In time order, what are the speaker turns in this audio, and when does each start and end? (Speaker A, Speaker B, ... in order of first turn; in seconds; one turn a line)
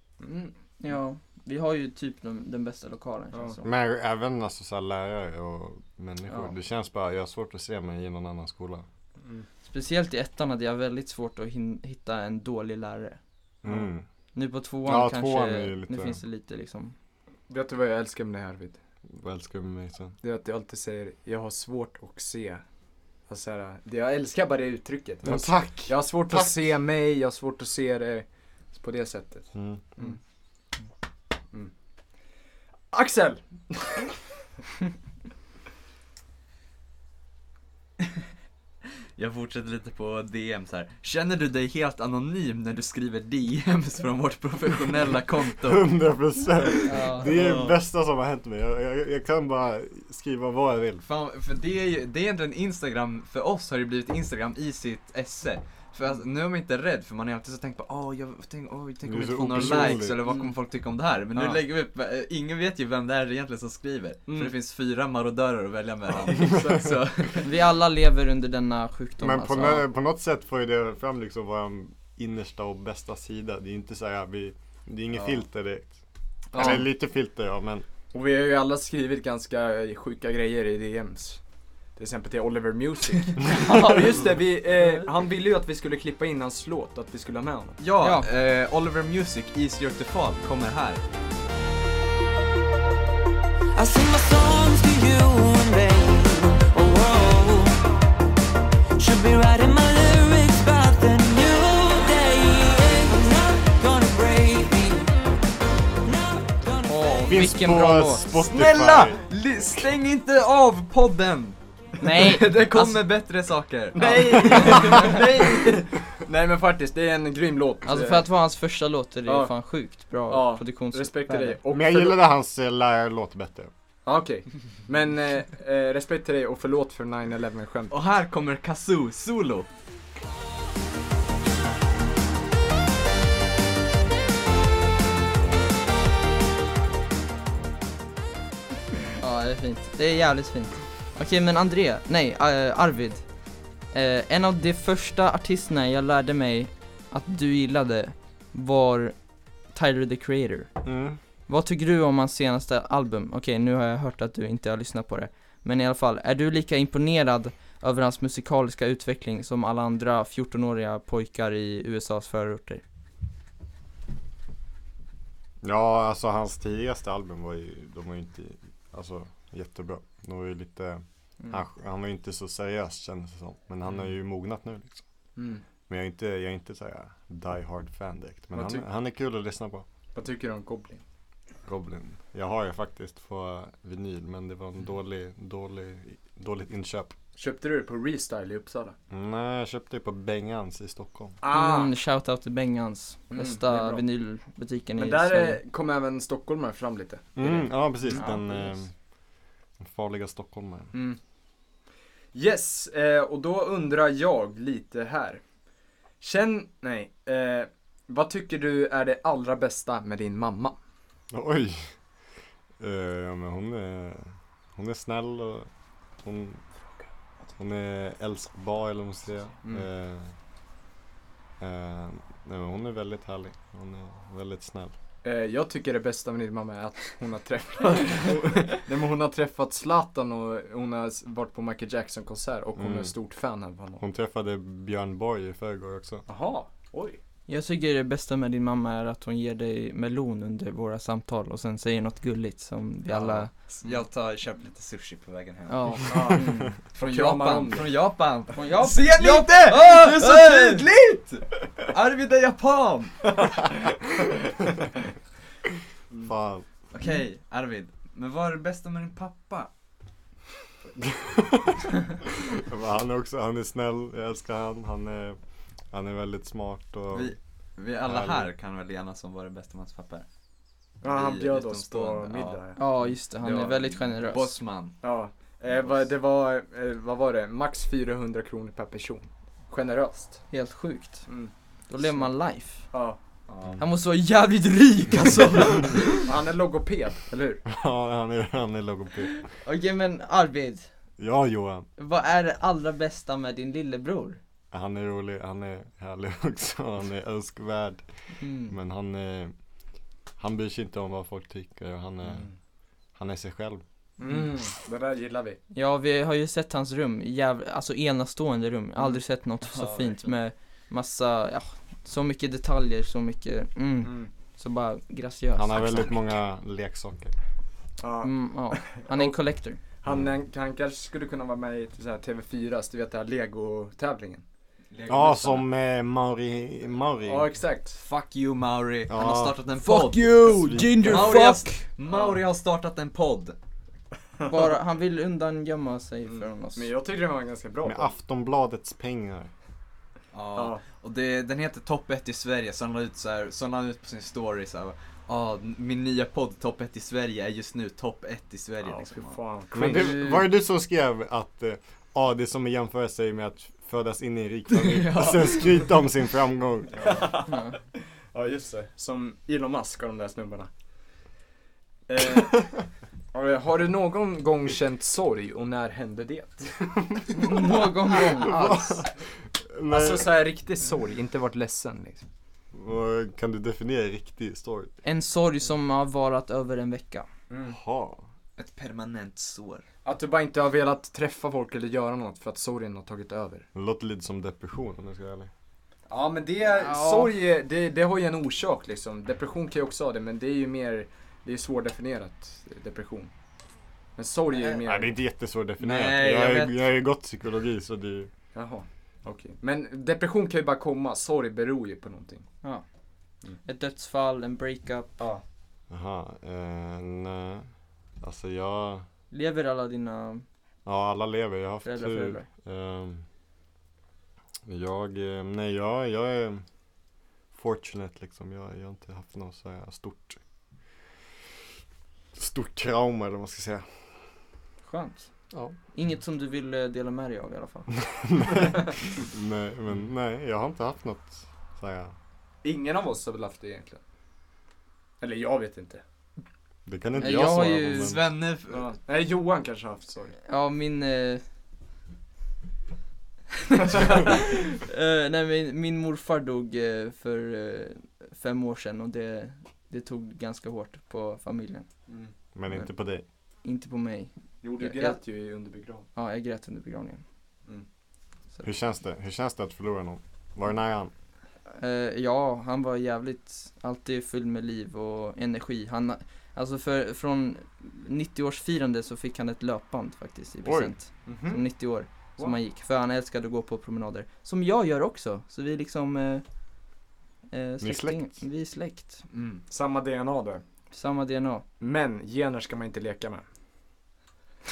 Speaker A: 0.2-0.5
Speaker B: 0.8-3.7
Speaker C: 3.6-8.8
Speaker B: 9.6-13.2
Speaker C: 13.6-14.1
Speaker B: 14.3-16.9
Speaker C: 14.8-16.2
Speaker A: 17.5-18.8
Speaker C: 19.1-20.2
Speaker A: 20.2-22.6
Speaker A: 23.3-30.2
Speaker C: 25.2-26.6
Speaker C: 29.5-29.8
Speaker A: 32.9-34.1
Speaker D: 39.2-45.8
Speaker C: 45.6-51.0
Speaker B: 46.8-47.3
Speaker D: 47.2-47.8
Speaker D: 51.0-67.5
Speaker C: 59.0-60.2
Speaker A: 61.3-61.6
Speaker A: 64.3-64.5
Speaker A: 66.3-66.9
Speaker B: 67.4-69.9
Speaker C: 69.2-75.9
Speaker A: 76.5-76.8
Speaker C: 76.5-77.8
Speaker A: 78.1-81.4
Speaker A: 82.0-87.8
Speaker D: 87.8-91.0
Speaker B: 88.0-88.3
Speaker E: 93.7-97.8
Speaker E: 99.0-105.1
Speaker E: 106.0-107.3
Speaker B: 106.9-108.2
Speaker C: 107.2-109.2
Speaker D: 108.4-115.7
Speaker B: 112.0-113.0
Speaker A: 113.9-118.3
Speaker B: 114.0-115.1
Speaker B: 117.8-121.6
Speaker A: 119.2-119.5
Speaker A: 120.3-122.2
Speaker C: 121.7-123.7
Speaker A: 124.0-127.9
Speaker D: 127.9-129.7
Speaker B: 139.2-143.2
Speaker B: 143.9-149.1
Speaker B: 149.7-150.7
Speaker C: 150.8-151.2
Speaker B: 151.5-162.8
Speaker C: 165.6-175.0
Speaker A: 175.3-175.6
Speaker C: 175.9-179.8
Speaker A: 178.5-178.8
Speaker A: 180.1-181.0
Speaker C: 181.7-187.2
Speaker A: 187.3-188.9
Speaker C: 189.1-191.4
Speaker A: 191.4-191.9
Speaker B: 191.5-195.6
Speaker A: 193.3-194.0
Speaker A: 195.0-198.3
Speaker C: 197.3-198.9
Speaker B: 198.1-198.4
Speaker C: 199.8-200.9
Speaker A: 200.9-201.2
Speaker A: 202.3-205.4
Speaker A: 206.2-210.8
Speaker C: 211.3-211.9
Speaker C: 212.8-215.7
Speaker C: 216.2-216.6
Speaker C: 217.6-220.3
Speaker C: 221.6-224.9
Speaker A: 225.2-234.0
Speaker C: 232.8-233.1
Speaker C: 234.0-236.2
Speaker A: 236.3-237.2
Speaker B: 237.5-243.5
Speaker D: 243.1-246.2
Speaker B: 245.7-246.7
Speaker A: 246.1-247.9
Speaker D: 246.9-253.4
Speaker B: 248.5-250.8
Speaker A: 253.4-253.7
Speaker C: 256.2-256.6
Speaker D: 256.9-259.7
Speaker C: 261.0-265.4
Speaker C: 265.9-267.3
Speaker D: 267.1-270.3
Speaker C: 268.1-268.5
Speaker A: 271.0-272.8
Speaker D: 271.0-272.6
Speaker B: 272.8-274.5
Speaker A: 273.4-274.0
Speaker D: 274.3-275.0
Speaker A: 275.0-280.4
Speaker B: 280.5-281.3
Speaker A: 281.3-281.5
Speaker B: 281.9-282.9
Speaker A: 282.9-283.2
Speaker D: 283.5-283.8
Speaker B: 283.8-286.3
Speaker A: 286.2-287.6
Speaker C: 287.6-289.5
Speaker B: 289.6-290.9
Speaker C: 291.2-291.9
Speaker B: 292.0-294.4
Speaker C: 294.7-299.5
Speaker B: 298.4-298.7
Speaker C: 300.4-302.5
Speaker C: 303.1-303.8
Speaker A: 304.2-305.6
Speaker B: 305.7-316.2
Speaker D: 309.6-310.3
Speaker A: 314.0-314.3
Speaker C: 315.6-317.3
Speaker A: 318.0-319.4
Speaker B: 318.2-319.8
Speaker A: 320.0-324.4
Speaker D: 324.9-325.6
Speaker C: 325.1-327.5
Speaker A: 327.3-328.0
Speaker D: 327.9-333.6
Speaker C: 329.1-329.6
Speaker B: 329.8-331.8
Speaker C: 330.5-331.4
Speaker A: 332.1-332.4
Speaker B: 334.4-336.9
Speaker A: 336.3-338.1
Speaker C: 337.8-339.5
Speaker D: 340.3-349.4
Speaker A: 340.6-340.8
Speaker A: 348.8-350.2
Speaker C: 349.7-357.0
Speaker B: 349.8-350.5
Speaker D: 354.7-355.9
Speaker A: 356.9-357.8
Speaker B: 357.5-357.8
Speaker A: 358.3-360.7
Speaker A: 362.1-367.7
Speaker B: 367.3-369.1
Speaker C: 368.2-370.4
Speaker A: 369.9-372.2
Speaker C: 372.7-374.9
Speaker B: 375.0-377.2
Speaker A: 377.5-377.8
Speaker C: 377.6-378.2
Speaker D: 378.6-379.8
Speaker A: 380.0-383.6
Speaker C: 383.7-385.5
Speaker A: 386.1-393.3
Speaker B: 386.6-387.3
Speaker A: 394.1-395.1
Speaker C: 394.8-398.3
Speaker D: 395.8-396.7
Speaker A: 398.5-402.5
Speaker B: 403.6-405.2
Speaker A: 405.2-405.4
Speaker C: 405.9-409.1
Speaker B: 409.3-410.4
Speaker C: 410.8-413.2
Speaker B: 411.8-412.4
Speaker C: 414.6-416.6
Speaker C: 417.5-420.4
Speaker C: 422.3-424.0
Speaker B: 424.8-425.3
Speaker B: 425.9-427.9
Speaker C: 428.1-432.1
Speaker A: 432.6-434.0
Speaker A: 435.2-436.0
Speaker C: 436.9-438.2
Speaker B: 437.2-438.1
Speaker D: 437.9-438.9
Speaker A: 438.7-440.3
Speaker B: 440.4-441.4
Speaker B: 443.8-451.9
Speaker C: 452.5-453.2
Speaker B: 453.6-455.2
Speaker A: 454.6-456.1
Speaker B: 456.1-457.2
Speaker C: 458.6-461.1
Speaker B: 461.8-476.4
Speaker C: 470.6-470.9
Speaker A: 471.2-471.7
Speaker B: 477.5-479.2
Speaker C: 477.8-478.3
Speaker D: 479.3-479.6
Speaker A: 479.7-480.6
Speaker B: 480.9-481.6
Speaker A: 481.8-483.4